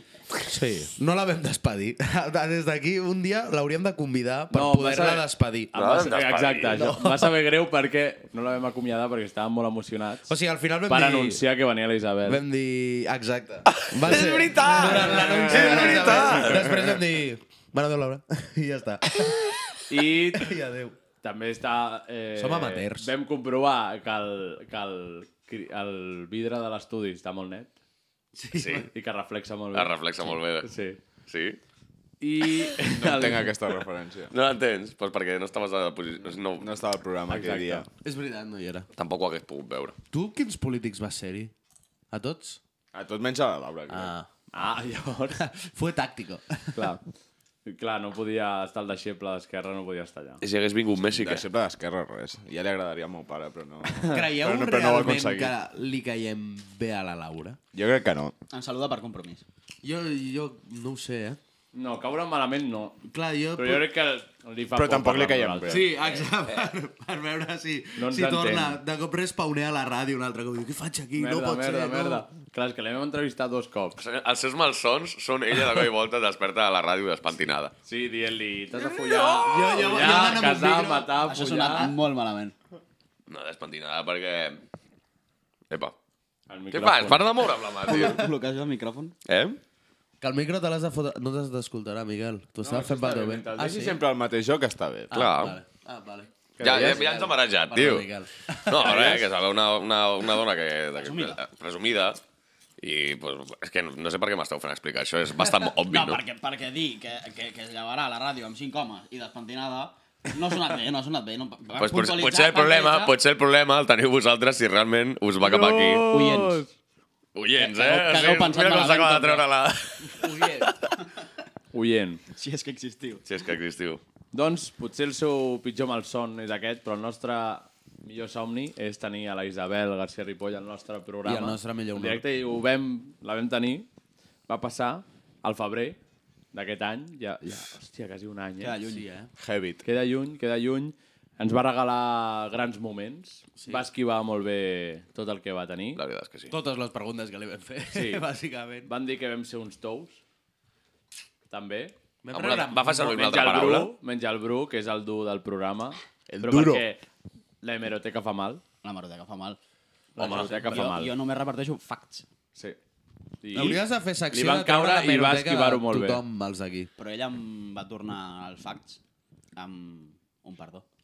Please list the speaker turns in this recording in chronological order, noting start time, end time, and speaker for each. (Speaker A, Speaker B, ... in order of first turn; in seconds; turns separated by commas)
Speaker A: 0.4-5.7, Speaker B: 4.5-10.3, Speaker C: 5.8-6.8, Speaker A: 6.7-7.3, Speaker A: 10.3-11.4, Speaker B: 10.9-12.4, Speaker A: 12.2-19.5, Speaker C: 13.7-16.9, Speaker D: 15.6-16.4, Speaker B: 19.9-20.5, Speaker A: 20.3-20.9, Speaker B: 21.2-27.7, Speaker A: 22.4-23.1, Speaker A: 28.4-28.9, Speaker C: 28.6-28.9, Speaker B: 28.9-31.0, Speaker C: 29.7-30.7, Speaker C: 31.3-31.6, Speaker B: 32.2-33.5, Speaker D: 32.9-34.3, Speaker C: 34.3-36.7, Speaker D: 36.6-37.9, Speaker B: 37.3-37.9, Speaker A: 38.0-38.9, Speaker C: 39.0-40.0, Speaker A: 40.1-41.5, Speaker A: 42.1-42.6, Speaker D: 42.9-44.1, Speaker A: 43.9-44.3, Speaker B: 44.5-45.4, Speaker A: 45.4-47.0, Speaker B: 46.8-47.0, Speaker B: 47.6-50.4, Speaker C: 50.4-51.5, Speaker D: 51.1-55.5, Speaker B: 54.0-54.3, Speaker A: 54.0-57.6, Speaker D: 57.7-58.3, Speaker E: 58.5-59.4, Speaker A: 59.8-61.4, Speaker B: 61.7-65.8, Speaker A: 63.1-63.9, Speaker D: 64.7-65.9, Speaker A: 65.7-72.3, Speaker B: 68.0-68.8, Speaker B: 71.2-74.0, Speaker C: 74.0-77.7, Speaker B: 77.9-81.9, Speaker C: 78.8-79.7, Speaker A: 79.4-82.0, Speaker E: 81.2-82.5, Speaker C: 83.3-84.6, Speaker B: 86.5-87.2, Speaker C: 86.7-88.3, Speaker E: 87.9-89.2, Speaker C: 89.3-89.6, Speaker A: 90.2-94.0, Speaker D: 92.6-95.2, Speaker A: 95.1-99.2, Speaker C: 95.1-95.6, Speaker B: 96.6-97.0, Speaker C: 96.6-98.1, Speaker C: 98.7-102.2, Speaker E: 98.8-99.2, Speaker E: 101.0-101.4, Speaker C: 102.8-106.2, Speaker E: 105.9-113.1, Speaker C: 111.8-116.1, Speaker B: 115.4-116.7, Speaker E: 116.1-116.6, Speaker C: 117.3-120.5, Speaker E: 117.6-119.4, Speaker A: 120.1-120.8, Speaker B: 121.7-122.2, Speaker E: 122.3-123.2, Speaker C: 123.3-124.0, Speaker B: 124.3-133.9, Speaker A: 131.2-132.2, Speaker B: 134.5-136.0, Speaker B: 136.5-138.8, Speaker E: 138.6-139.0, Speaker A: 138.9-139.3, Speaker D: 139.4-139.8, Speaker B: 139.8-146.0, Speaker A: 143.6-143.9, Speaker C: 146.0-146.5, Speaker A: 146.5-148.9, Speaker B: 147.9-148.2, Speaker B: 148.9-150.2, Speaker B: 151.5-151.9, Speaker A: 152.2-153.3, Speaker C: 152.3-153.9, Speaker B: 153.0-157.0, Speaker D: 156.3-156.8, Speaker B: 157.6-158.6, Speaker E: 158.8-159.6, Speaker B: 160.2-161.1, Speaker E: 160.2-162.3, Speaker A: 160.3-160.8, Speaker B: 163.4-166.2, Speaker A: 163.5-166.9, Speaker E: 167.0-169.0, Speaker E: 169.6-170.8